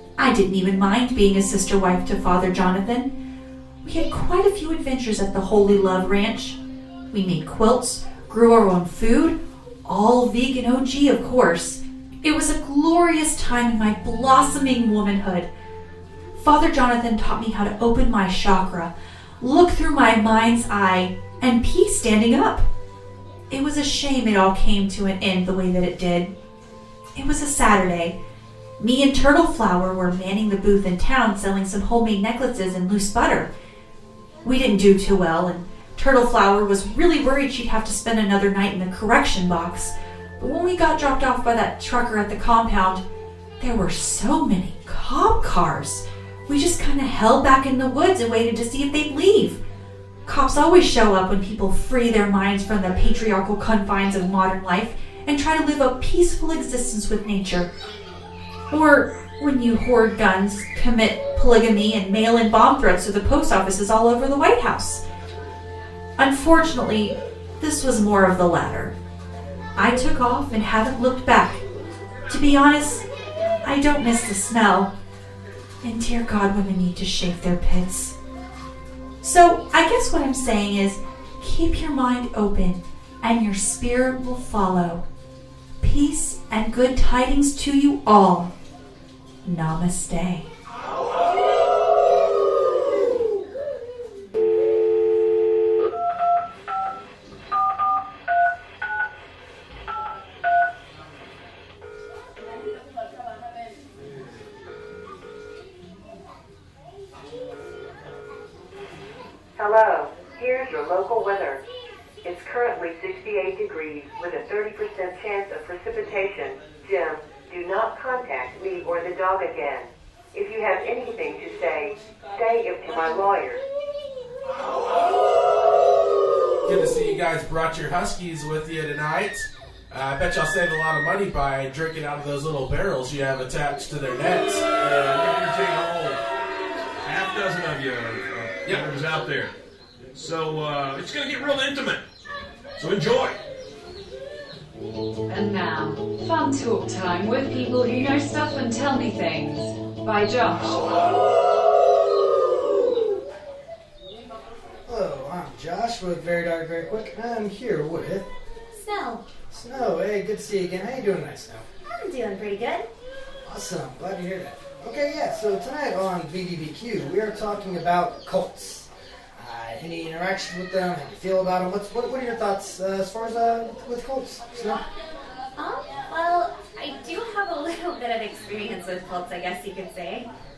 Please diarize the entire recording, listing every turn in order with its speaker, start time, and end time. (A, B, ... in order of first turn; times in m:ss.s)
0:00.2-0:03.1 A
0:03.8-0:06.6 A
0:07.1-0:15.5 A
0:16.4-0:22.6 A
0:23.5-0:26.3 A
0:27.1-0:28.1 A
0:28.8-0:33.5 A
0:34.4-0:43.0 A
0:43.6-0:49.6 A
0:50.2-0:57.7 A
0:58.7-1:05.0 A
1:06.2-1:08.9 A
1:09.8-1:11.6 A
1:12.3-1:13.0 A
1:13.6-1:14.9 A
1:15.8-1:18.1 A
1:19.2-1:25.0 A
1:25.8-1:28.5 A
1:29.4-1:30.5 A
1:49.6-1:51.6 B
1:52.2-2:03.6 B
2:06.6-2:14.7 C
2:14.8-2:16.2 D
2:17.0-2:19.5 D
2:20.1-2:22.0 D
2:22.8-2:23.4 D
2:25.3-2:30.8 E
2:34.8-2:38.2 F
2:38.7-2:39.2 G
2:39.5-2:41.6 F
2:41.9-2:42.9 G
2:43.4-2:54.8 F
2:55.6-3:00.3 G